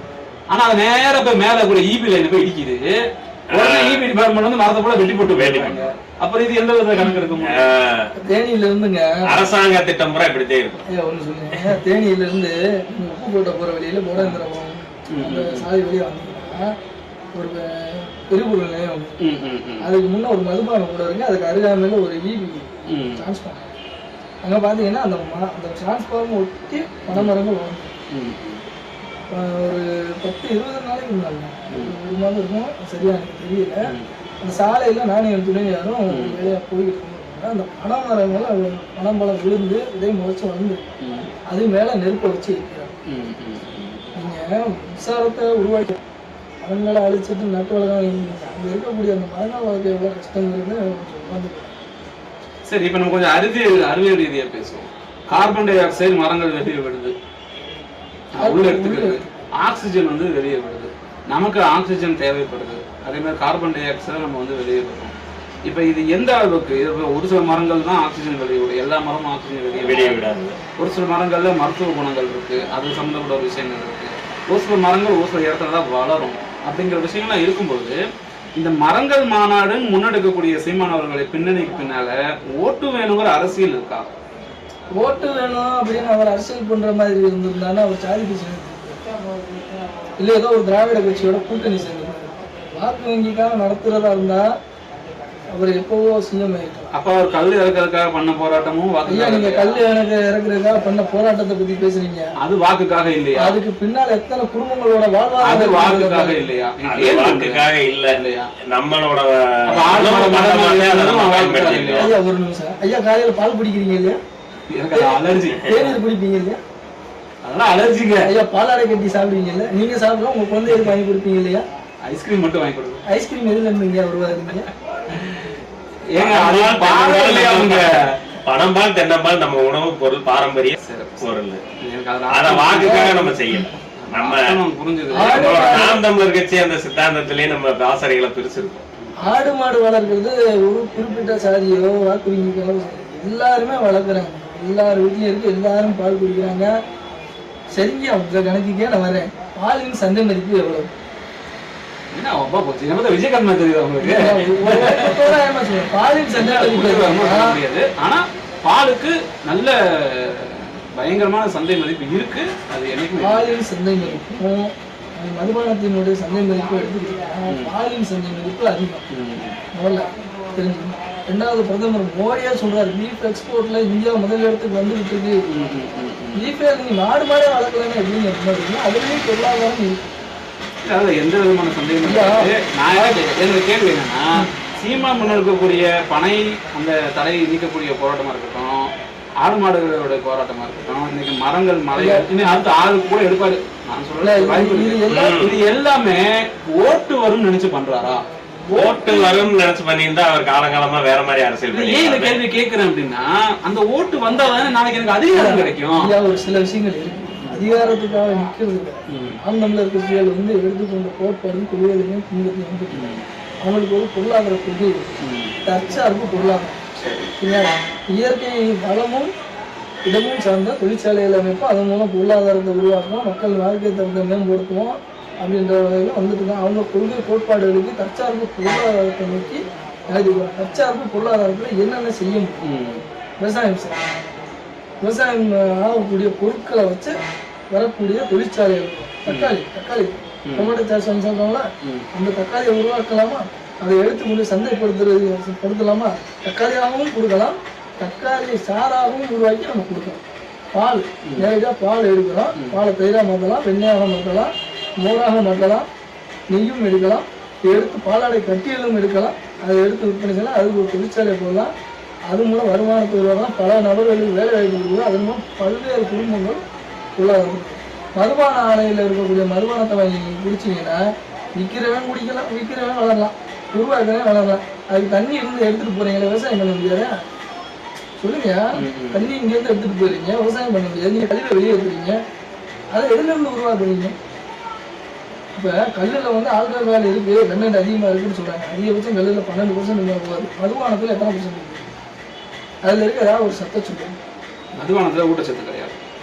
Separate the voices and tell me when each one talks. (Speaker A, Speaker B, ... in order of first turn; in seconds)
Speaker A: 0.5-7.7, 14.2-14.4, 15.1-15.7, 19.2-19.9, 22.9-23.2, 28.1-28.6, 31.7-31.9, 36.1-36.5, 41.0-41.3, 43.1-44.0, 52.7-57.1, 58.4-70.2, 70.8-78.0, 78.6-84.1, 96.9-99.8, 102.4-103.6, 105.4-108.5, 109.7-112.1, 114.7-116.0, 117.4-118.3, 122.1-123.0, 125.1-125.6, 126.1-128.1, 130.8-131.3, 131.8-133.2, 134.0-135.6, 152.1-155.3, 156.3-164.2, 167.5-167.7, 169.1-169.6, 175.5-176.4, 180.8-188.9, 189.4-198.2, 201.7-206.1, 209.1-209.4, 212.9-213.2, 215.2-215.6, 217.0-217.3, 232.6-233.0, 239.3-239.6, 240.5-240.8, 251.2-251.5, 278.8-279.3, 294.8-296.0
Speaker B: 3.5-4.0, 5.2-5.9, 7.4-8.1, 9.2-10.8, 69.8-70.6, 106.9-112.1, 126.2-131.6, 132.3-134.6, 135.2-138.8, 195.1-195.6, 198.7-202.4
Speaker C: 8.2-9.5, 10.9-16.6, 17.4-19.2, 19.8-23.7, 24.4-27.9, 29.3-33.9, 34.4-40.9, 41.5-43.0, 44.1-46.0, 46.6-51.7, 58.4-59.3, 85.0-89.0, 90.2-94.5, 95.5-96.9, 99.1-102.3, 103.4-106.5, 112.0-114.2, 114.9-116.6, 118.2-121.6, 123.1-124.7, 132.8-133.4, 135.1-136.0, 139.2-146.7, 147.7-150.9, 154.0-157.6, 163.2-169.1, 169.8-175.4, 176.4-180.1, 182.1-182.5, 191.9-192.3, 194.2-195.4, 198.7-199.6, 205.3-215.0, 215.6-216.8, 217.4-219.3, 220.1-232.8, 233.4-234.0, 235.0-237.2, 237.7-250.2, 250.7-255.9, 256.5-261.7, 262.3-266.6, 267.2-271.0, 271.6-277.1, 278.2-282.2, 282.9-284.1, 285.6-291.9, 292.8-294.2